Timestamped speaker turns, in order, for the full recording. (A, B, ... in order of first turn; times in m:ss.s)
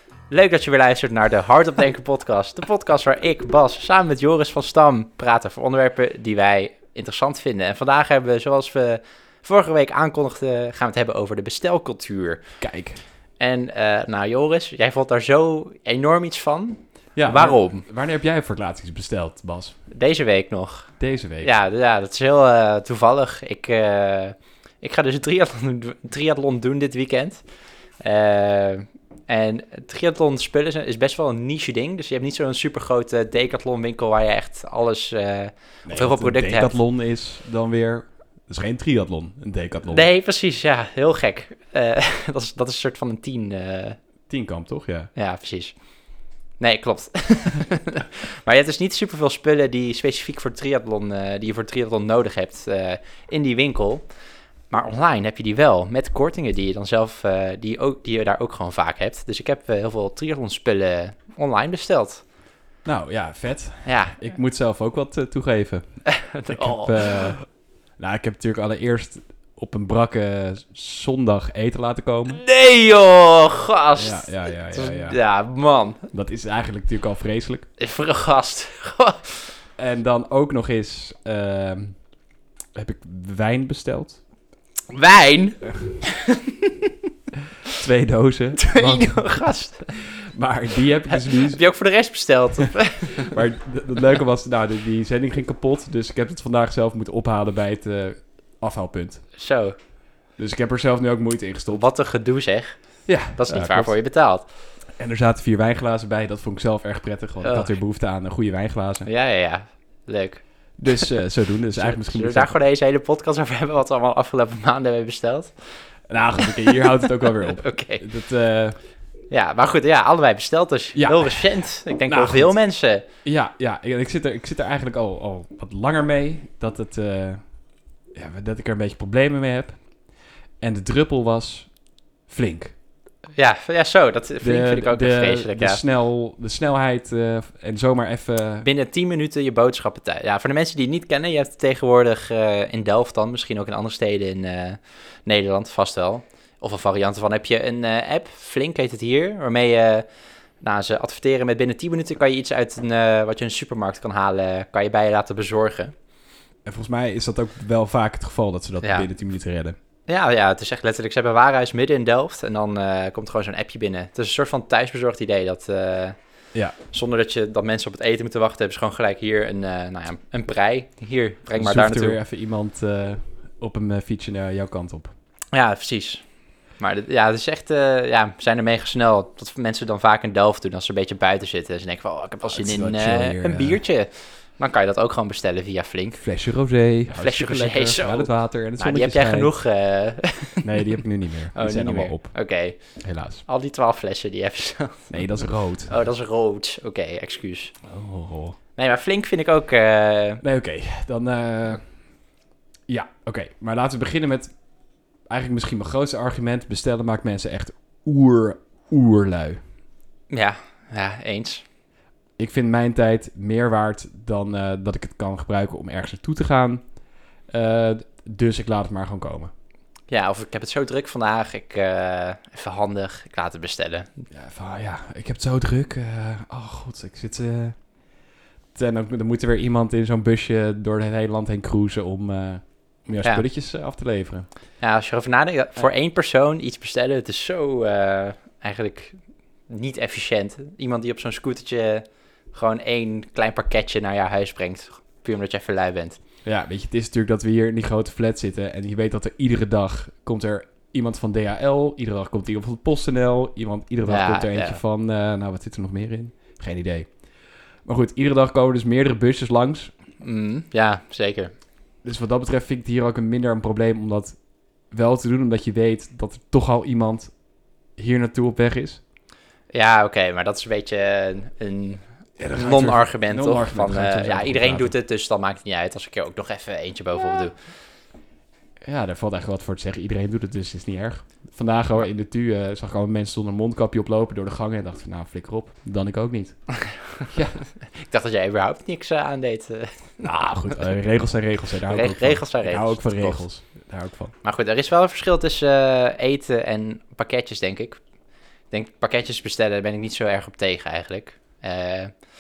0:00.3-0:12.4 A
0:12.6-0:13.0 B
0:13.4-0:17.8 A
0:17.2-0:19.8 B
0:19.9-0:27.4 A
0:21.0-0:21.5 B
0:28.0-0:36.8 A
0:35.9-0:40.1 B
0:39.9-0:44.0 A
0:44.3-0:45.1 B
0:45.2-0:45.7 A
0:46.6-0:54.0 A
0:54.7-1:02.2 A
1:02.8-1:07.5 B
1:03.8-1:04.3 A
1:06.1-1:07.4 A
1:08.0-1:12.4 B
1:12.3-1:16.1 A
1:14.0-1:15.2 B
1:16.1-1:17.7 B
1:17.8-1:19.5 A
1:19.8-1:22.0 B
1:22.7-1:24.2 B
1:24.9-1:26.9 A
1:27.7-1:31.6 B
1:28.6-1:29.9 A
1:31.1-1:33.4 A
1:33.2-1:39.2 B
1:39.4-1:39.8 A
1:40.4-1:41.8 B
1:41.7-1:42.8 A
1:43.1-1:44.0 B
1:43.4-1:44.5 A
1:45.0-1:49.1 B
1:47.4-1:47.7 A
1:49.1-1:51.1 A
1:50.8-1:52.5 B
1:51.8-1:55.8 A
1:56.1-1:58.8 B
1:56.4-1:58.1 A
1:59.3-2:03.1 A
2:01.0-2:02.5 B
2:03.2-2:07.4 B
2:08.1-2:09.8 B
2:10.6-2:11.7 B
2:12.3-2:12.7 B
2:13.4-2:15.8 A
2:14.4-2:18.7 B
2:18.6-2:30.1 A
2:30.6-2:35.9 A
2:36.6-2:39.8 B
2:38.8-2:39.1 A
2:40.1-2:46.2 A
2:46.9-2:52.2 A
2:51.6-2:55.1 B
2:55.5-2:56.2 A
2:56.8-3:06.2 A
3:02.4-3:03.8 B
3:06.2-3:09.5 B
3:07.1-3:11.0 A
3:10.6-3:12.4 B
3:11.6-3:17.8 A
3:13.0-3:13.4 B
3:15.1-3:15.9 B
3:17.9-3:18.6 B
3:18.8-3:20.4 A
3:20.4-3:21.8 B
3:22.9-3:24.5 B
3:25.3-3:29.6 B
3:30.3-3:31.6 A
3:32.4-3:36.8 B
3:37.5-3:39.5 B
3:40.1-3:44.2 A
3:44.3-3:47.8 B
3:48.8-3:54.5 B
3:54.8-4:06.2 A
4:06.4-4:17.1 B
4:14.1-4:14.8 A
4:17.8-4:19.9 B
4:20.2-4:21.5 A
4:22.0-4:24.4 B
4:24.9-4:27.3 B
4:28.0-4:29.0 B
4:29.7-4:37.6 A
4:32.4-4:34.9 B
4:38.8-4:46.6 B
4:46.8-4:47.2 A
4:47.3-4:47.6 B
4:48.0-4:50.8 A
4:50.2-4:54.3 B
4:51.9-4:53.4 A
4:54.4-4:58.0 A
4:58.7-5:02.1 A